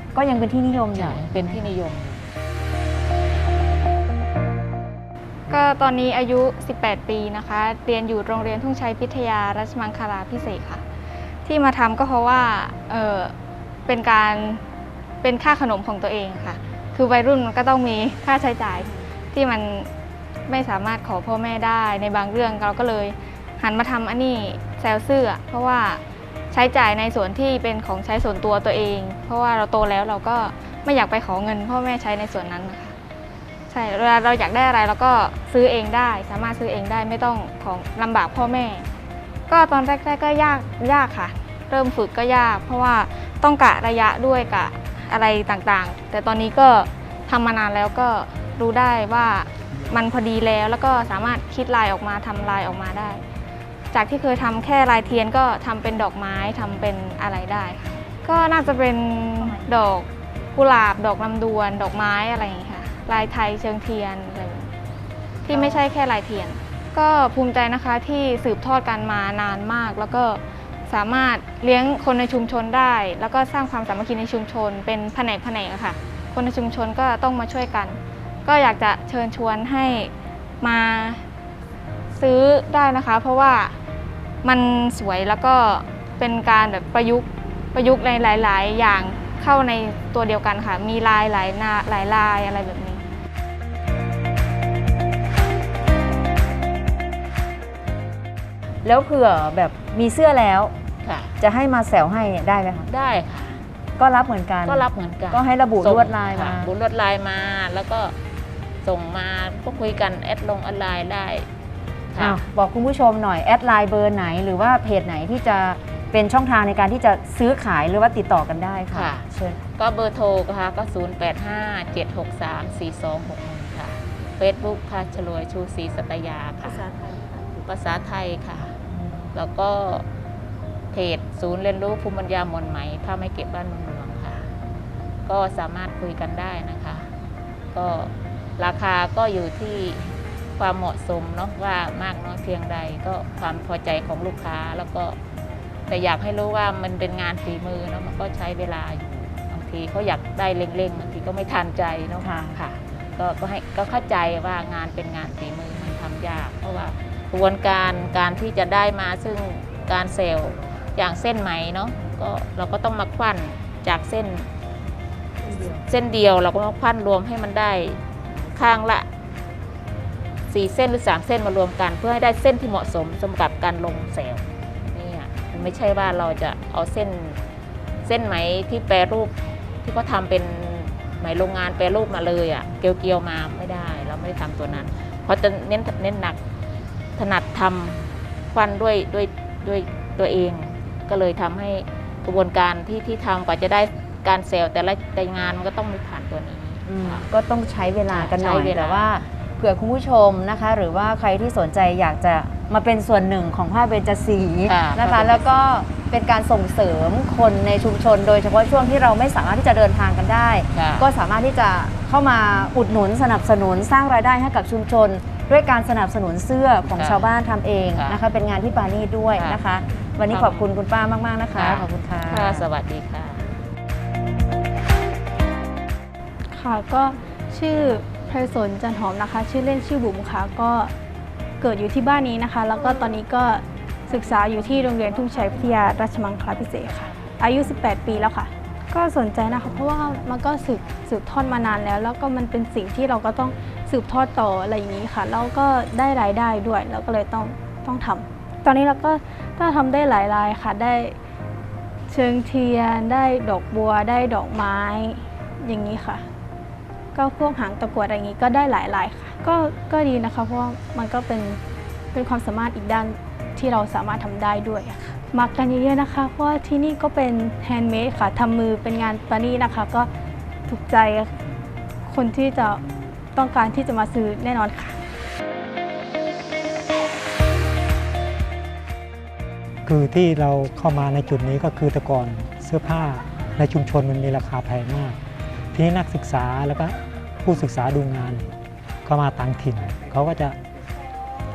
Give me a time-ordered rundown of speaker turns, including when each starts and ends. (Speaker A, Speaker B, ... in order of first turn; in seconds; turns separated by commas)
Speaker A: 0.1-1.7, Speaker B: 0.9-2.2, Speaker C: 5.5-10.8, Speaker C: 11.4-13.3, Speaker C: 13.9-14.6, Speaker C: 15.2-19.9, Speaker C: 20.5-32.9, Speaker C: 33.7-38.9, Speaker C: 39.5-53.2, Speaker C: 53.9-64.7, Speaker C: 65.4-81.2, Speaker C: 82.2-83.8, Speaker C: 84.4-93.0, Speaker A: 98.8-100.7, Speaker B: 101.0-101.3, Speaker A: 101.4-102.9, Speaker B: 102.9-103.6, Speaker A: 104.0-106.7, Speaker B: 104.6-108.1, Speaker B: 108.8-111.5, Speaker B: 112.1-112.4, Speaker A: 112.2-119.6, Speaker B: 118.9-119.2, Speaker B: 119.8-128.8, Speaker A: 128.9-129.3, Speaker B: 129.3-130.0, Speaker B: 130.9-134.5, Speaker B: 135.2-137.1, Speaker B: 137.7-145.2, Speaker B: 145.9-164.5, Speaker A: 152.2-152.6, Speaker B: 165.5-169.1, Speaker B: 170.5-177.4, Speaker B: 178.0-186.4, Speaker B: 187.2-197.3, Speaker A: 196.9-222.7, Speaker B: 198.1-199.2, Speaker B: 204.7-205.6, Speaker B: 210.7-211.1, Speaker B: 216.9-217.3, Speaker B: 217.9-218.2, Speaker B: 219.3-219.6, Speaker B: 220.3-220.7, Speaker B: 221.5-223.5, Speaker D: 226.5-230.9, Speaker D: 231.6-251.2, Speaker D: 252.1-256.2, Speaker D: 257.1-261.6, Speaker D: 262.1-270.1, Speaker D: 270.7-271.3, Speaker D: 272.1-272.8, Speaker D: 273.3-275.0, Speaker E: 279.9-285.2, Speaker E: 285.7-288.5, Speaker E: 289.0-290.6